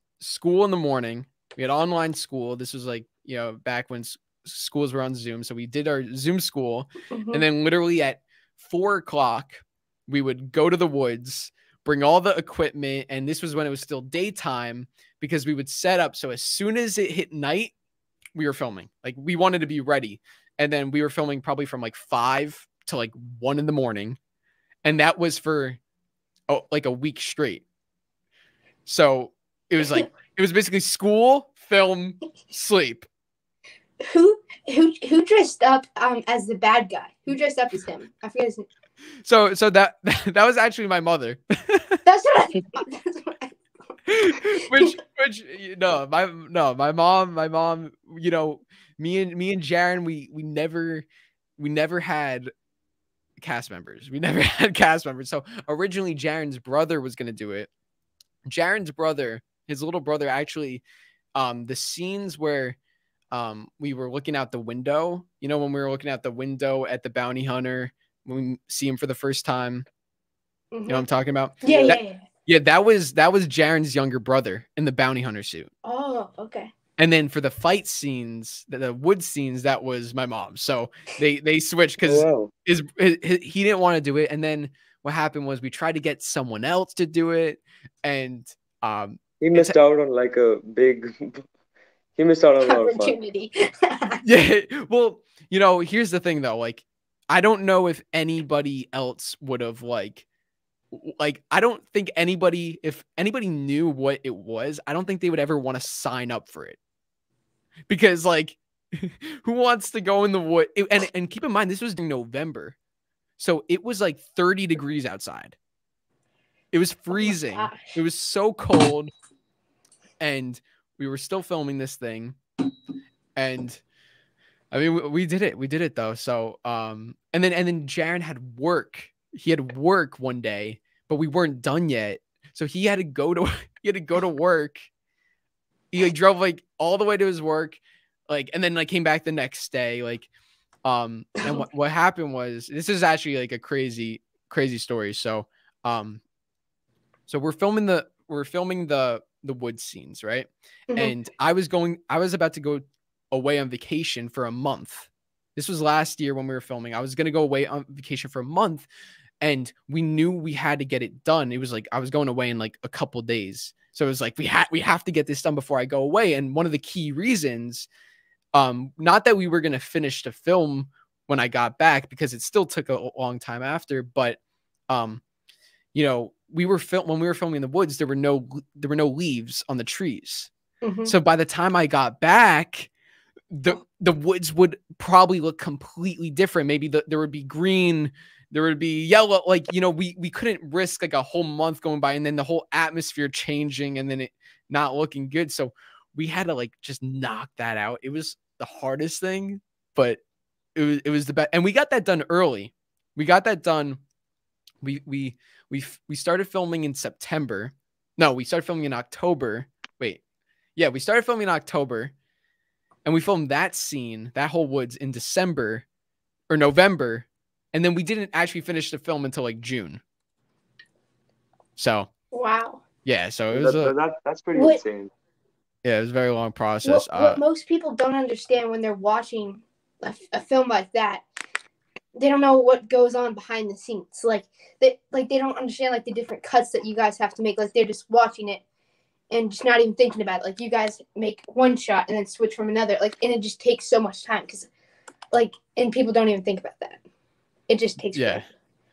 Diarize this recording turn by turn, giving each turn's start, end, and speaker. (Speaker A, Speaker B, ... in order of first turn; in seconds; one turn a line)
Speaker A: 0.2-17.7
Speaker B: 7.1-7.4
Speaker A: 18.4-24.2
Speaker A: 24.8-25.8
Speaker A: 26.5-27.6
Speaker A: 28.9-33.1
Speaker B: 34.0-38.7
Speaker A: 39.2-42.0
Speaker B: 42.0-44.9
Speaker A: 44.1-51.1
Speaker A: 51.6-52.5
Speaker A: 53.4-57.7
Speaker A: 58.5-60.8
Speaker A: 61.4-62.8
Speaker A: 63.3-69.9
Speaker B: 70.7-71.1
Speaker A: 70.9-75.7
Speaker B: 71.6-72.2
Speaker C: 71.7-72.0
Speaker B: 75.8-76.7
Speaker A: 77.0-89.8
Speaker C: 82.0-82.5
Speaker C: 89.4-91.4
Speaker C: 92.2-93.2
Speaker B: 92.7-94.2
Speaker A: 94.2-100.2
Speaker A: 100.9-106.8
Speaker A: 107.9-112.8
Speaker A: 113.4-115.6
Speaker A: 116.7-119.1
Speaker B: 117.1-117.8
Speaker A: 120.2-122.4
Speaker A: 123.4-123.8
Speaker A: 124.7-134.9
Speaker A: 135.9-140.3
Speaker A: 140.8-146.2
Speaker A: 147.3-158.9
Speaker A: 159.4-167.9
Speaker A: 168.5-175.2
Speaker A: 175.9-180.5
Speaker B: 180.8-181.1
Speaker A: 181.1-182.9
Speaker A: 183.5-200.2
Speaker A: 200.8-204.0
Speaker A: 204.8-210.2
Speaker A: 210.8-212.1
Speaker A: 213.1-215.8
Speaker A: 216.5-220.0
Speaker A: 221.8-222.1
Speaker B: 222.3-222.8
Speaker A: 223.1-223.9
Speaker C: 223.5-225.1
Speaker B: 224.5-224.8
Speaker A: 225.8-227.4
Speaker B: 226.8-231.2
Speaker B: 232.2-238.6
Speaker B: 239.3-244.7
Speaker B: 245.3-247.0
Speaker B: 247.7-248.5
Speaker A: 248.1-248.5